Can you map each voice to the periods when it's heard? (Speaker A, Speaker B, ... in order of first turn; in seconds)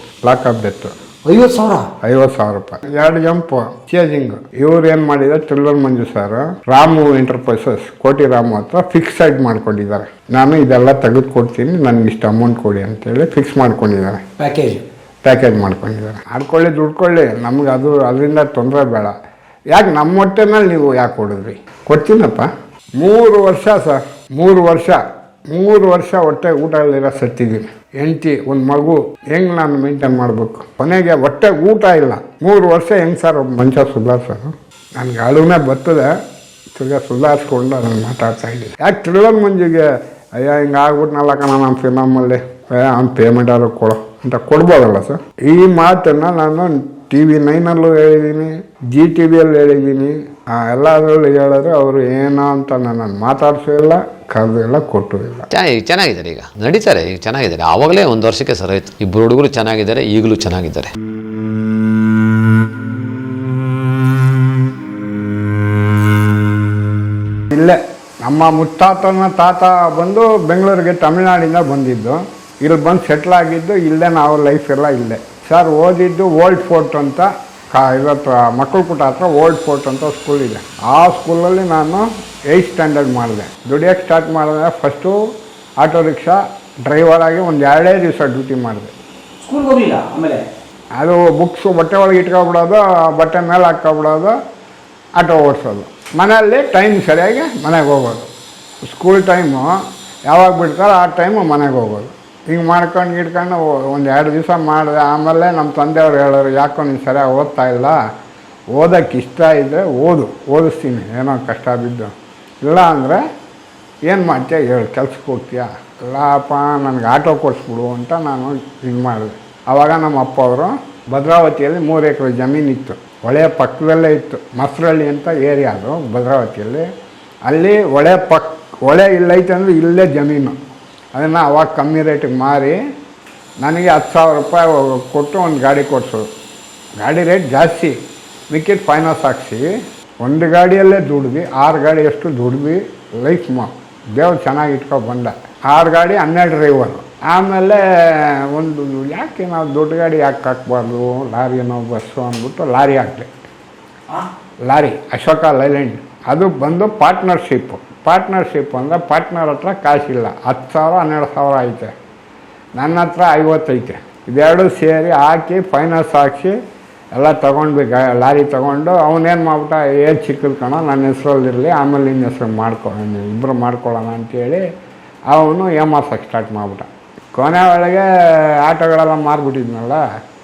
Speaker A: 0.2-0.9, 2.0-14.2, 15.2-19.1, 19.7-36.1, 36.7-55.5, 67.5-85.2, 85.8-88.9, 91.0-94.3, 95.2-98.3, 98.8-99.7, 100.3-108.0, 108.7-113.2, 114.1-126.9, 127.5-130.6, 131.1-132.8, 133.6-136.3, 137.0-138.0, 138.5-139.7, 140.2-153.3, 154.6-161.9, 162.8-166.6, 167.1-174.6, 175.3-180.0
Speaker B: 1.3-1.9, 14.4-14.8, 89.4-90.4
Speaker C: 55.5-60.9